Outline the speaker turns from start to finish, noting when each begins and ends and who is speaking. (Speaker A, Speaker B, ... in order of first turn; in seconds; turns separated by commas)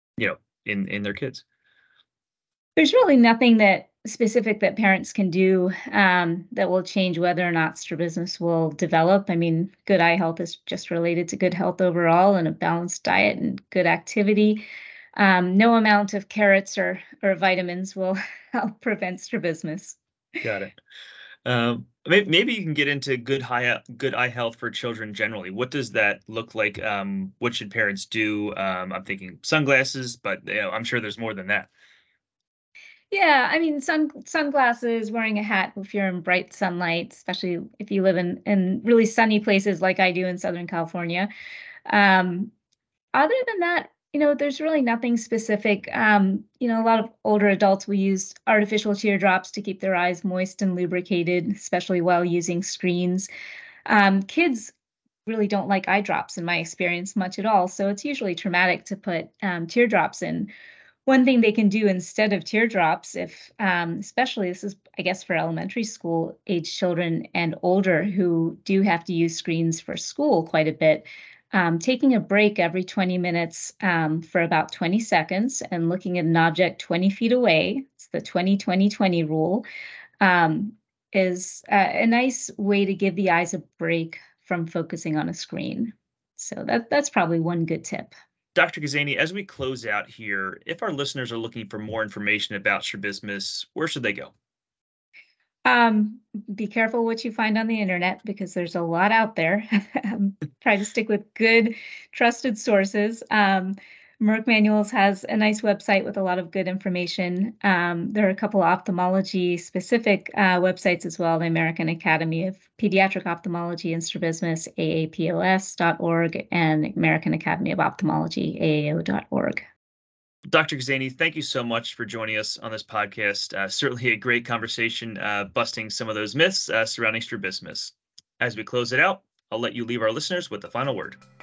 Speaker A: 0.2-1.4, Speaker B: 2.8-14.6, Speaker B: 15.2-20.0, Speaker A: 20.4-20.8, Speaker A: 21.4-31.7, Speaker B: 33.1-41.3, Speaker B: 41.9-42.5, Speaker B: 43.1-53.3, Speaker B: 53.9-54.7, Speaker B: 55.3-60.5, Speaker B: 61.1-79.7, Speaker B: 80.2-88.1, Speaker A: 88.5-94.3, Speaker B: 95.7-119.6, Speaker A: 120.5-131.2